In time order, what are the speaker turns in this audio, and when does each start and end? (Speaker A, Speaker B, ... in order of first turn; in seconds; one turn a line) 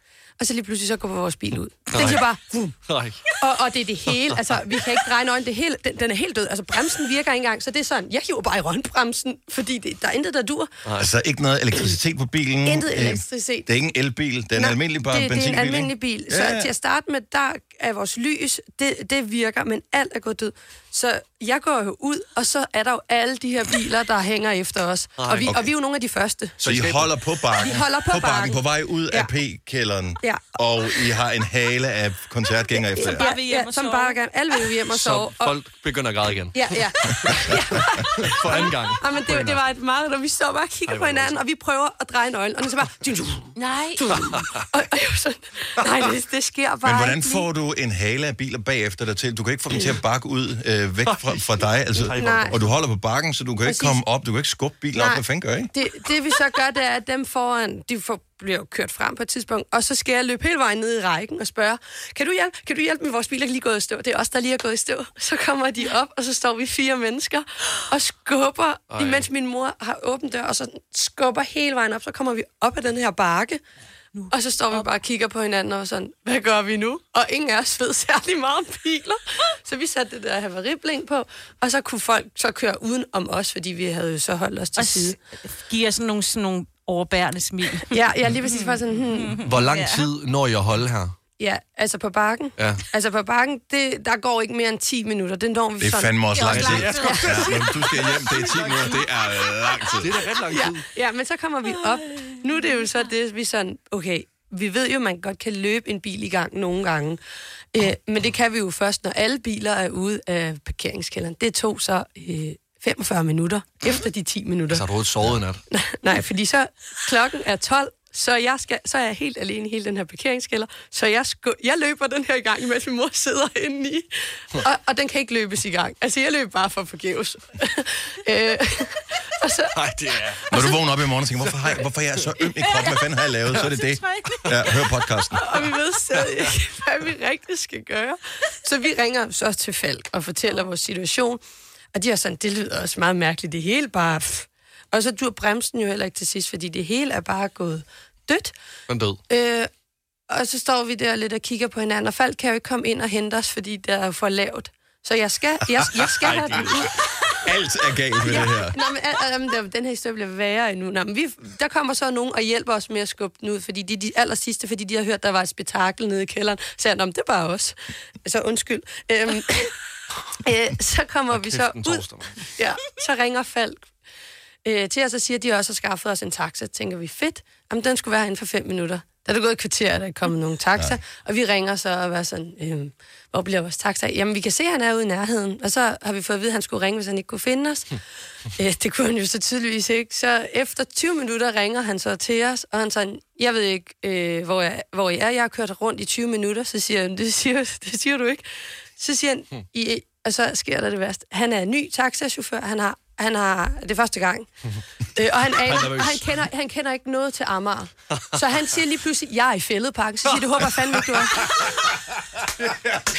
Speaker A: 0.4-2.6
Speaker B: 1.9-3.3
Speaker A: 3.4-10.8
Speaker B: 4.1-4.8
Speaker B: 10.8-11.1
Speaker C: 11.0-16.7
Speaker A: 12.6-13.7
Speaker A: 14.5-26.8
Speaker B: 25.1-25.7
Speaker C: 26.6-33.3
Speaker B: 26.6-27.1
Speaker A: 27.4-29.3
Speaker A: 32.8-35.6
Speaker D: 33.0-34.5
Speaker B: 34.9-39.6
Speaker A: 36.5-47.5
Speaker B: 40.9-41.4
Speaker D: 43.5-44.2
Speaker B: 44.1-44.6
Speaker C: 46.8-55.7
Speaker B: 51.1-52.7
Speaker A: 52.1-52.5
Speaker A: 53.6-54.0
Speaker A: 54.9-73.6
Speaker B: 68.9-69.3
Speaker A: 74.3-85.2
Speaker D: 84.8-90.1
Speaker A: 87.8-89.4
Speaker B: 89.4-91.2
Speaker A: 91.4-98.0
Speaker B: 92.5-92.8
Speaker C: 95.8-100.2
Speaker D: 96.3-98.3
Speaker B: 96.5-97.6
Speaker B: 98.4-98.9
Speaker B: 100.0-100.9
Speaker A: 100.2-107.2
Speaker D: 101.7-103.1
Speaker A: 107.7-114.8
Speaker B: 114.7-115.6
Speaker A: 115.7-129.7
Speaker B: 129.7-130.4
Speaker A: 130.3-130.7
Speaker C: 130.5-135.4
Speaker B: 131.4-131.8
Speaker D: 132.6-134.9
Speaker A: 135.3-141.4
Speaker B: 136.2-136.4
Speaker A: 141.9-148.5
Speaker B: 148.9-149.2
Speaker A: 149.3-149.7
Speaker A: 150.3-157.6
Speaker B: 156.1-156.9
Speaker C: 157.4-158.7
Speaker A: 158.1-169.8
Speaker A: 170.4-173.9
Speaker B: 171.3-172.5
Speaker A: 174.6-187.9
Speaker A: 188.6-204.5
Speaker A: 205.2-211.7
Speaker B: 205.6-206.3
Speaker B: 208.1-208.4
Speaker B: 210.4-210.9
Speaker B: 212.7-213.0